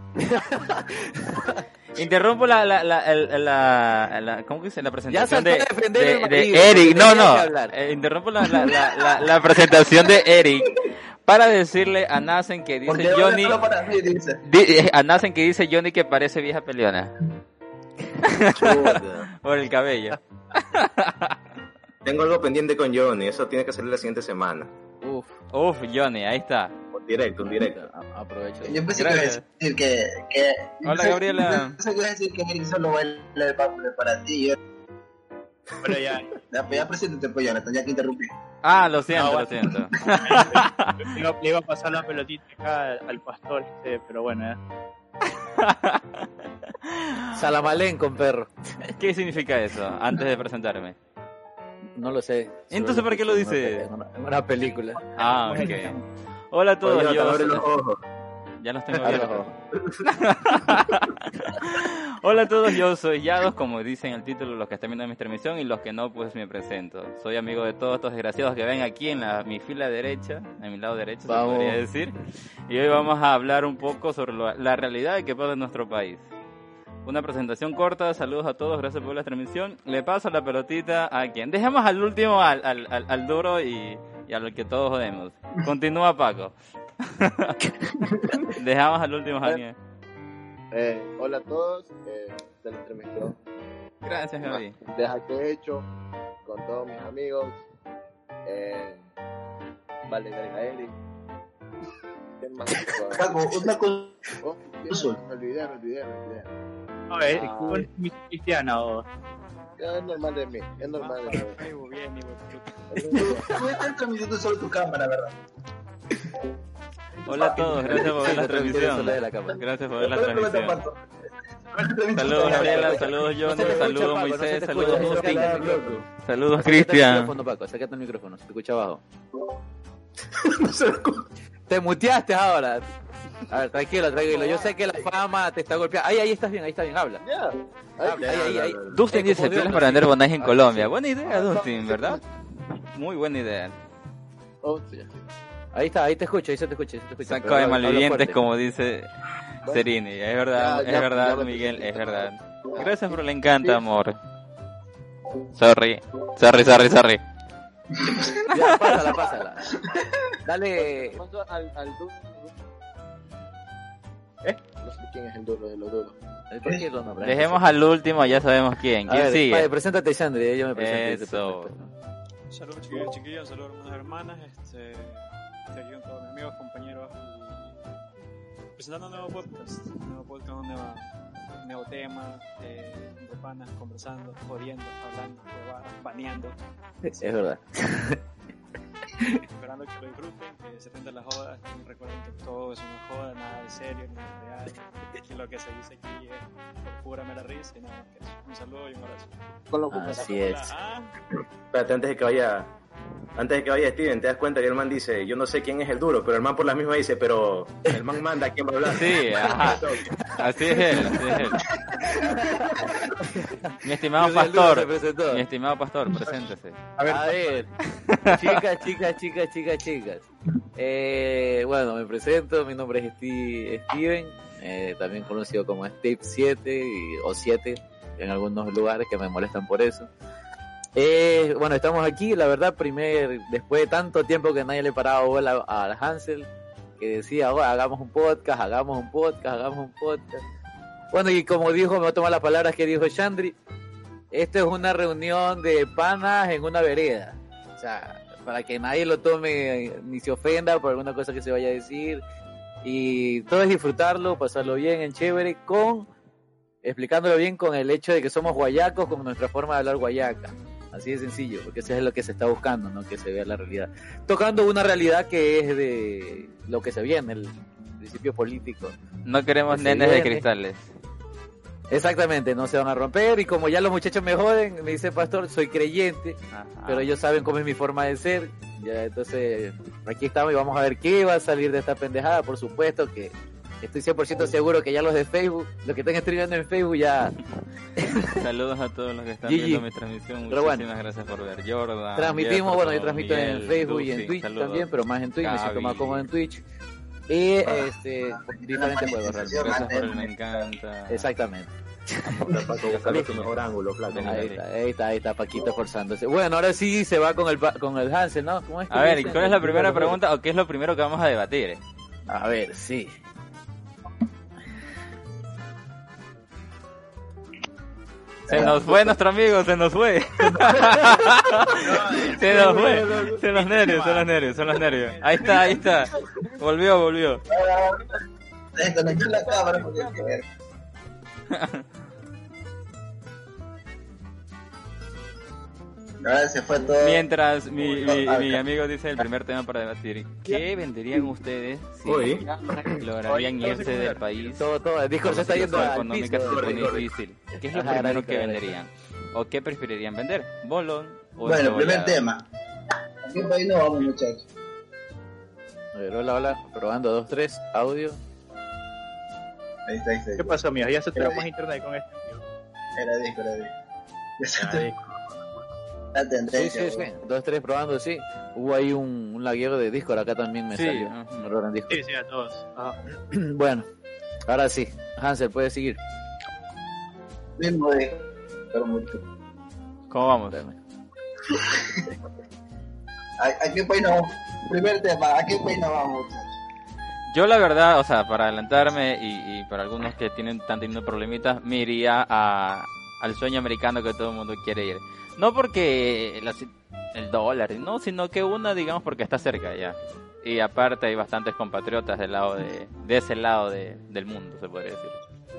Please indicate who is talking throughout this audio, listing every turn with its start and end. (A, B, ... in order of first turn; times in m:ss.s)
0:00.2-0:01.7 A
0:01.9-0:13.6 B
0:05.1-0:07.7 A
0:12.9-0:14.4 C
0:14.4-0:17.1 B
0:18.2-0:21.4 B
0:18.6-0:19.3 D
0:22.0-0:24.7 D
0:25.0-0:25.4 A
0:25.5-0:26.7 B
0:26.9-0:27.8 D
0:27.4-0:28.9 A
0:28.6-0:34.6 C
0:29.0-0:29.4 B
0:30.8-0:31.8 B
0:35.8-0:36.9 E
0:36.5-0:38.3 C
0:38.6-0:41.1 B
0:39.2-0:44.6 E
0:45.3-0:46.3 B
0:46.8-0:47.3 B
0:47.3-0:48.9 A
0:49.0-0:51.0 B
0:52.0-0:55.0 A
0:52.7-0:53.9 B
0:55.0-0:56.0 E
0:55.2-0:56.0 B
0:56.5-0:57.7 B
0:56.8-0:58.0 D
0:58.6-0:59.5 B
0:59.0-0:59.5 A
0:59.7-1:00.1 D
1:00.0-1:12.1 B
1:11.3-1:11.8 A
1:12.7-1:16.3 B
1:17.0-1:27.6 B
1:28.4-1:29.8 B
1:30.7-1:33.4 F
1:34.0-1:34.8 B
1:34.4-1:35.9 F
1:36.4-1:37.6 F
1:38.5-1:39.1 F
1:40.1-1:41.0 F
1:42.4-1:43.4 F
1:43.1-1:44.3 C
1:44.4-1:46.5 F
1:44.9-1:45.2 C
1:47.1-1:49.1 E
1:47.3-1:47.9 F
1:49.8-1:51.6 F
1:50.8-1:53.2 G
1:52.9-1:53.6 F
1:53.1-1:55.3 C
1:57.2-2:00.8 B
1:57.3-1:58.0 C
1:57.4-1:59.6 A
2:00.0-2:01.0 C
2:01.7-2:03.2 C
2:02.1-2:05.6 B
2:02.3-2:06.0 A
2:03.6-2:03.9 D
2:04.9-2:06.1 D
2:06.1-2:07.3 B
2:06.6-2:09.0 A
2:10.3-2:11.3 D
2:11.7-2:12.9 A
2:13.5-2:17.2 A
2:14.1-2:15.1 F
2:17.2-2:18.6 F
2:18.0-2:20.2 A
2:18.2-2:19.0 D
2:18.9-2:22.2 B
2:20.4-2:22.2 F
2:23.0-2:23.8 B
2:24.6-2:25.2 F
2:25.7-2:28.4 A
2:27.2-2:34.2 B
2:30.5-2:33.8 F
2:35.5-2:37.2 B
2:38.0-2:38.5 C
2:38.4-2:39.8 A
2:39.7-2:40.4 C
2:40.5-2:41.2 A
2:40.8-2:42.6 F
2:44.8-2:46.2 F
2:46.5-2:47.7 A
2:47.2-2:49.7 B
2:49.1-2:51.9 A
2:50.8-2:51.7 B
2:52.5-2:57.8 G
2:58.8-3:01.1 G
3:01.6-3:06.6 G
3:07.1-3:08.2 A
3:09.6-3:19.4 G
3:19.7-3:20.6 F
3:19.9-3:20.7 A
3:20.0-3:21.2 G
3:21.7-3:22.7 D
3:23.4-3:31.0 D
3:28.9-3:31.6 B
3:30.7-3:31.5 A
3:31.9-3:33.1 C
3:32.1-3:35.4 A
3:33.8-3:36.8 B
3:37.0-3:37.4 E
3:37.0-3:37.7 A
3:37.9-3:38.6 B
3:38.3-3:50.1 A
3:51.0-4:00.4 A
4:01.1-4:03.6 A
4:04.3-4:12.2 A
4:12.8-4:16.1 A
4:16.8-4:29.0 A
4:29.3-4:30.9 B
4:29.7-4:30.4 A
4:31.9-4:47.4 A
4:36.5-4:37.1 B
4:48.0-4:48.4 A
4:48.2-4:54.9 B
4:49.4-4:49.9 A
4:50.5-4:50.9 A
4:52.2-4:56.6 A
4:55.4-4:56.3 B
4:57.3-4:59.8 A
4:57.6-5:00.6 C
4:59.5-5:01.3 B
5:01.1-5:03.4 A
5:02.3-5:04.6 D
5:02.8-5:04.6 B
5:04.3-5:10.2 A
5:08.9-5:11.8 B
5:12.3-5:13.1 A
5:18.5-5:19.2 C
5:18.5-5:27.4 B
5:20.8-5:23.4 D
5:21.7-5:22.6 E
5:23.4-5:25.0 E
5:25.1-5:25.6 G
5:25.5-5:26.5 F
5:27.5-5:28.1 C
5:27.5-5:28.0 F
5:28.8-5:30.4 C
5:29.0-5:30.4 F
5:31.5-5:31.8 B
5:36.2-5:37.2 C
5:37.0-5:42.4 B
5:37.8-5:38.6 C
5:42.1-5:43.0 D
5:42.9-5:44.7 B
5:43.3-5:44.5 E
5:44.6-5:46.8 A
5:45.2-5:52.2 B
5:45.5-5:45.9 D
5:46.4-5:47.1 D
5:47.6-5:48.7 A
5:51.4-5:52.4 C
5:53.2-5:54.4 C
5:55.9-5:58.2 A
5:59.9-6:00.6 C
6:00.4-6:02.4 E
6:01.2-6:01.4 C
6:03.0-6:03.7 C
6:04.4-6:04.9 C
6:04.6-6:05.5 D
6:06.1-6:07.1 C
6:06.5-6:12.0 A
6:10.7-6:11.5 B
6:11.9-6:13.0 E
6:13.3-6:13.9 A
6:14.5-6:16.0 A
6:17.6-6:19.2 C
6:20.1-6:20.6 B
6:20.5-6:20.8 A
6:21.5-6:22.1 C
6:23.4-6:26.6 C
6:27.3-6:45.2 B